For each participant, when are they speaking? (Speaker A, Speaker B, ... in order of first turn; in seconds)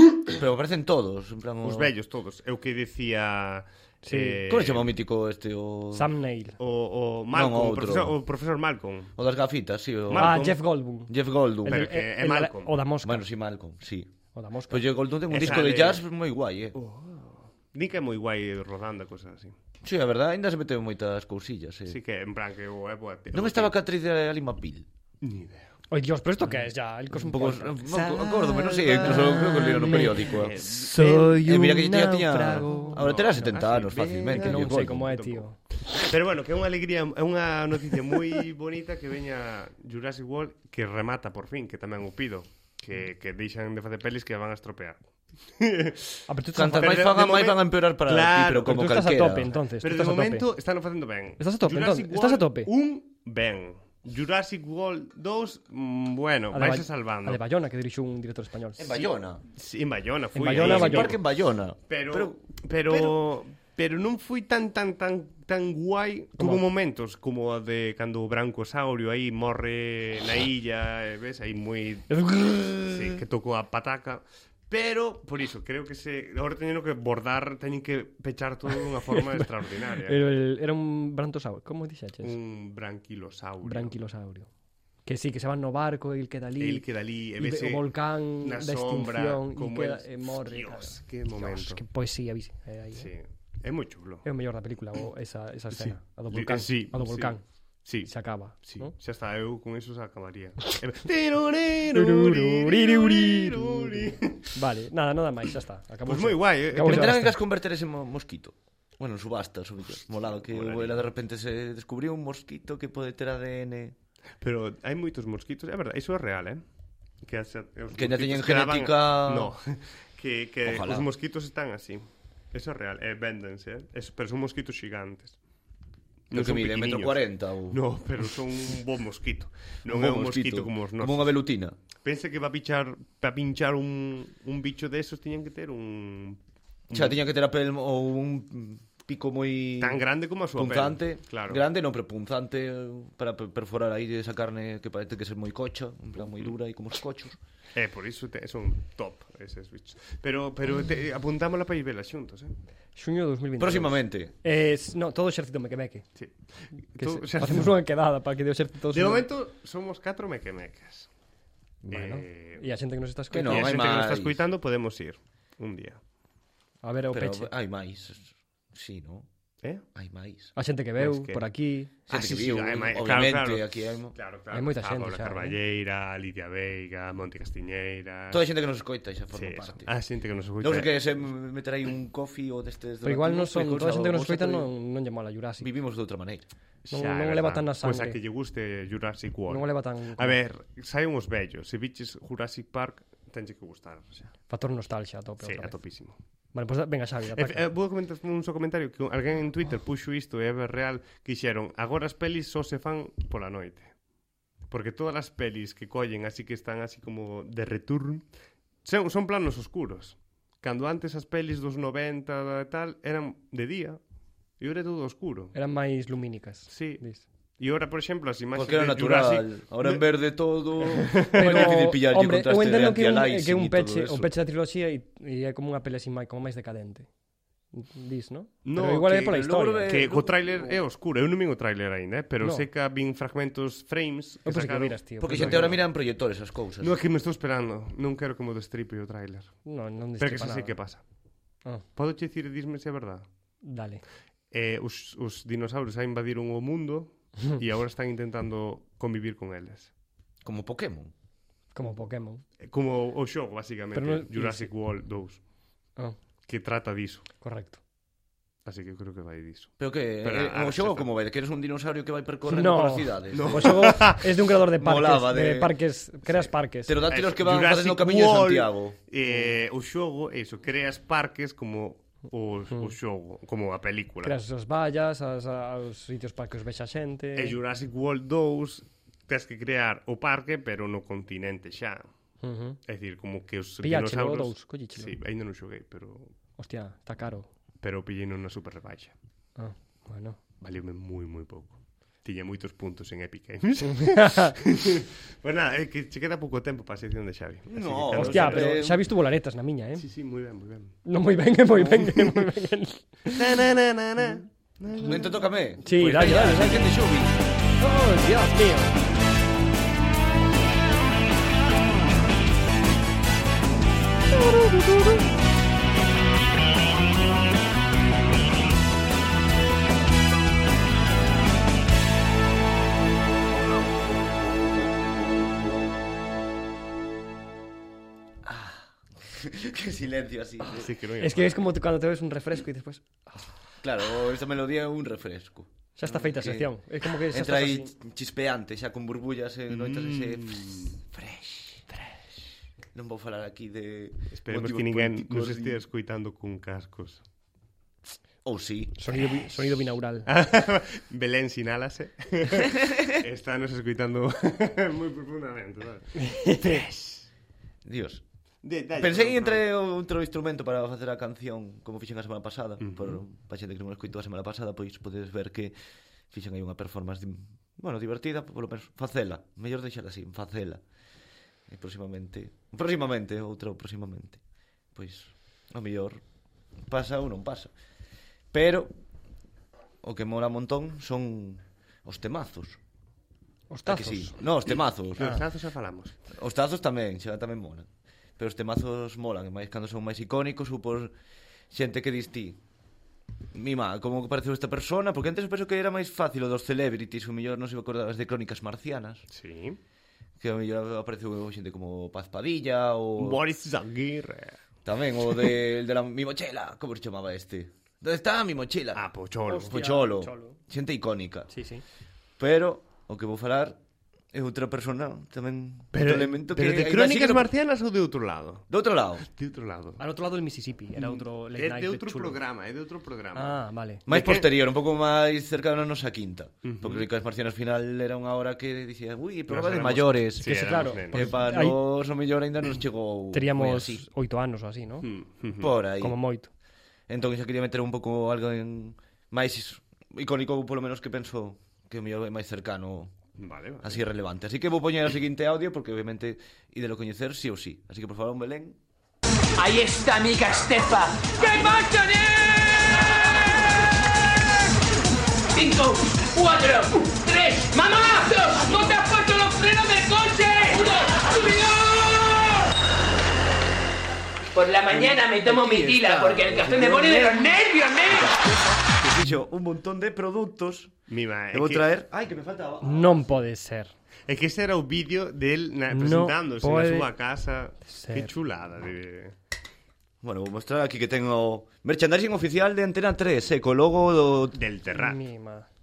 Speaker A: 0.3-1.9, 4.5-6.1, 7.3-8.2, 9.2-11.9, 13.0-14.1, 14.7-16.8, 19.8-22.0, 23.3-24.9, 27.1-30.6, 31.3-35.5, 46.5-49.5, 58.8-59.4, 60.5-63.1, 106.8-114.0, 117.9-119.5, 120.7-121.1, 126.3-127.8, 129.9-131.8, 136.9-147.4, 153.6-154.3, 163.3-164.4, 167.1-169.3, 169.9-170.5, 172.1-174.2, 178.3-179.9, 180.6-184.7, 185.6-186.5, 218.6-224.3, 229.1-230.8, 235.2-237.0, 250.4-251.1, 259.8-264.0, 264.8-265.8, 266.3-269.0, 297.7-299.0, 301.9-302.2, 305.1-307.4, 328.4-330.9, 333.8-336.7, 337.3-341.8, 342.9-345.8, 348.4-349.0, 352.8-353.1, 357.9-358.2, 359.0-365.8, 366.3-370.8, 371.7-374.4, 374.9-376.2, 376.9-377.7, 378.5-378.9, 380.0-382.8, 383.9-385.3, 386.3-387.9, 388.4-391.1, 391.7-392.6, 393.5-399.3, 400.4-403.4, 404.9-409.1, 409.7-411.5, 412.4-413.8, 414.3-417.5, 418.7-419.3, 424.1-434.1, 435.6-436.2, 437.1-443.1, 443.8-448.8, 464.9-473.3, 480.2-484.6
Speaker B: 1.6-4.9, 6.6-9.2, 10.1-10.6, 11.7-12.8, 15.3-16.0, 16.7-19.6, 21.9-23.8, 25.2-25.7, 30.1-31.4, 32.8-34.9, 36.0-46.2, 46.8-48.8, 49.8-57.4, 59.6-61.2, 61.9-72.1, 72.9-80.3, 82.2-84.0, 86.6-91.8, 93.0-94.2, 95.7-104.5, 106.0-107.2, 110.0-111.1, 114.4-116.6, 117.2-125.4, 126.3-131.3, 132.0-137.2, 139.8-141.6, 147.8-152.5, 156.2-157.8, 158.9-161.1, 161.9-162.7, 163.3-166.0, 171.0-171.5, 172.1-178.4, 179.3-181.0, 186.8-194.3, 195.4-196.2, 197.3-203.9, 204.7-208.2, 208.8-214.0, 214.6-215.5, 216.7-217.0, 217.6-220.1, 221.1-221.9, 228.7-235.8, 236.8-239.6, 240.2-241.0, 242.0-243.3, 244.5-249.9, 252.6-255.4, 256.5-257.3, 258.6-261.1, 263.3-264.3, 267.1-274.4, 277.4-282.1, 282.9-286.3, 287.8-289.1, 290.6-298.8, 300.0-301.0, 303.3-305.5, 330.7-331.7, 339.7-341.0, 344.3-347.2, 350.3-357.3, 358.6-359.6, 362.8-363.2, 385.2-386.2, 399.3-399.8, 403.2-404.6, 408.9-409.8, 415.9-418.6, 419.2-420.0, 421.0-424.5, 426.6-427.1, 429.5-431.4, 435.0-435.8, 443.4-444.0, 471.1-471.9, 474.3-479.4, 484.5-485.2
Speaker C: 4.0-4.4, 5.9-6.6, 10.2-11.1, 11.6-13.2, 14.3-14.8, 25.9-33.4, 34.4-35.6, 46.3-47.0, 48.7-50.5, 51.4-52.7, 56.5-58.9, 60.4-61.1, 66.4-66.7, 72.1-73.2, 79.1-79.5, 80.0-82.4, 83.6-84.5, 85.0-86.8, 87.4-93.1, 94.2-97.4, 98.0-98.9, 101.9-107.4, 153.0-156.1, 157.0-159.3, 161.8-163.8, 166.8-167.5, 170.6-171.9, 174.5-175.6, 183.0-185.7, 186.9-188.2, 189.5-190.4, 194.5-195.8, 196.5-197.7, 215.5-217.2, 221.3-227.1, 227.7-229.9, 232.4-232.7, 234.4-235.8, 239.7-240.8, 243.6-244.0, 251.8-252.4, 253.9-254.7, 257.4-257.8, 262.5-267.0, 274.2-277.6, 282.4-282.8, 283.8-285.2, 286.6-287.5, 289.6-290.4, 293.9-294.6, 298.2-300.1, 301.1-303.4, 305.8-306.9, 307.8-309.0, 314.3-315.0, 330.6-333.5, 336.0-337.9, 349.0-350.3, 356.2-356.8, 383.7-384.4, 409.5-410.6, 411.5-411.8, 420.0-422.4, 423.4-424.0, 430.4-431.8, 433.3-435.1, 436.0-436.5, 472.8-473.9, 475.9-477.1, 477.9-478.3, 484.9-485.7
Speaker D: 449.6-453.0, 455.5-462.6, 464.5-468.4